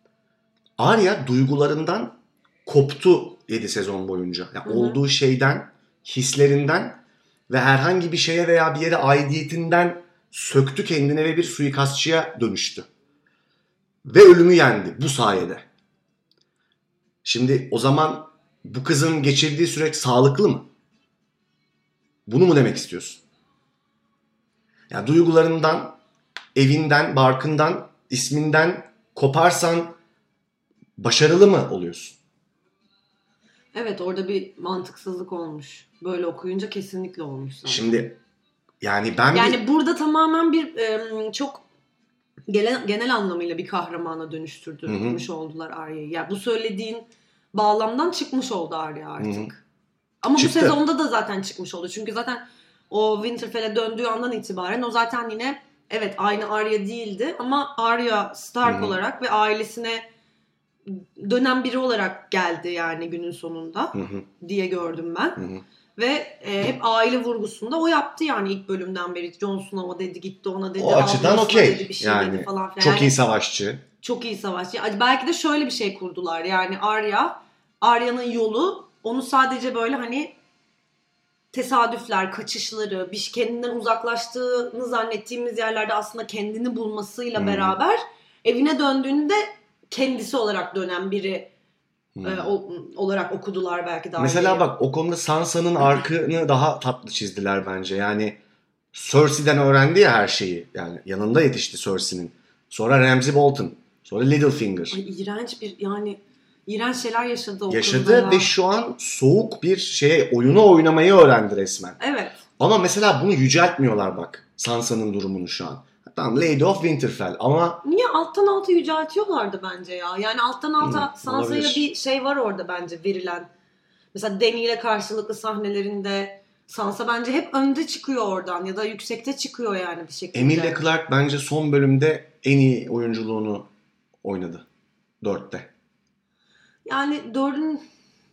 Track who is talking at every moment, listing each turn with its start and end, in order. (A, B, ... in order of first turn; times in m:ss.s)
0:00.8-0:12.9 A
0:04.6-0:05.0 B
0:14.0-0:15.7 A
0:17.2-0:20.7 A
0:22.3-0:23.2 A
0:24.9-0:26.0 A
0:26.6-0:30.0 A
0:31.0-0:32.2 A
0:33.7-0:37.9 B
0:37.6-0:38.2 A
0:38.8-0:39.6 A
0:39.3-0:41.6 B
0:42.5-0:49.6 B
0:44.9-0:45.2 A
0:49.2-0:49.5 A
0:50.2-1:00.1 B
0:50.4-0:50.8 A
0:58.6-0:59.0 A
1:00.9-1:05.4 B
1:03.9-1:04.3 A
1:05.4-1:05.6 A
1:06.0-1:13.2 B
1:10.8-1:13.8 A
1:14.0-1:20.4 B
1:21.5-1:31.5 B
1:27.4-1:27.8 A
1:32.2-1:32.5 A
1:32.2-1:34.7 B
1:34.2-1:38.4 A
1:35.8-1:36.0 B
1:38.9-1:45.0 A
1:44.9-1:48.5 B
1:47.7-1:52.0 A
1:52.0-1:52.4 B
1:52.6-1:57.8 A
1:57.8-2:03.5 B
2:00.8-2:01.8 A
2:04.1-2:10.8 B
2:10.3-2:13.7 A
2:14.2-2:14.7 A
2:15.2-2:15.7 A
2:16.8-2:17.8 B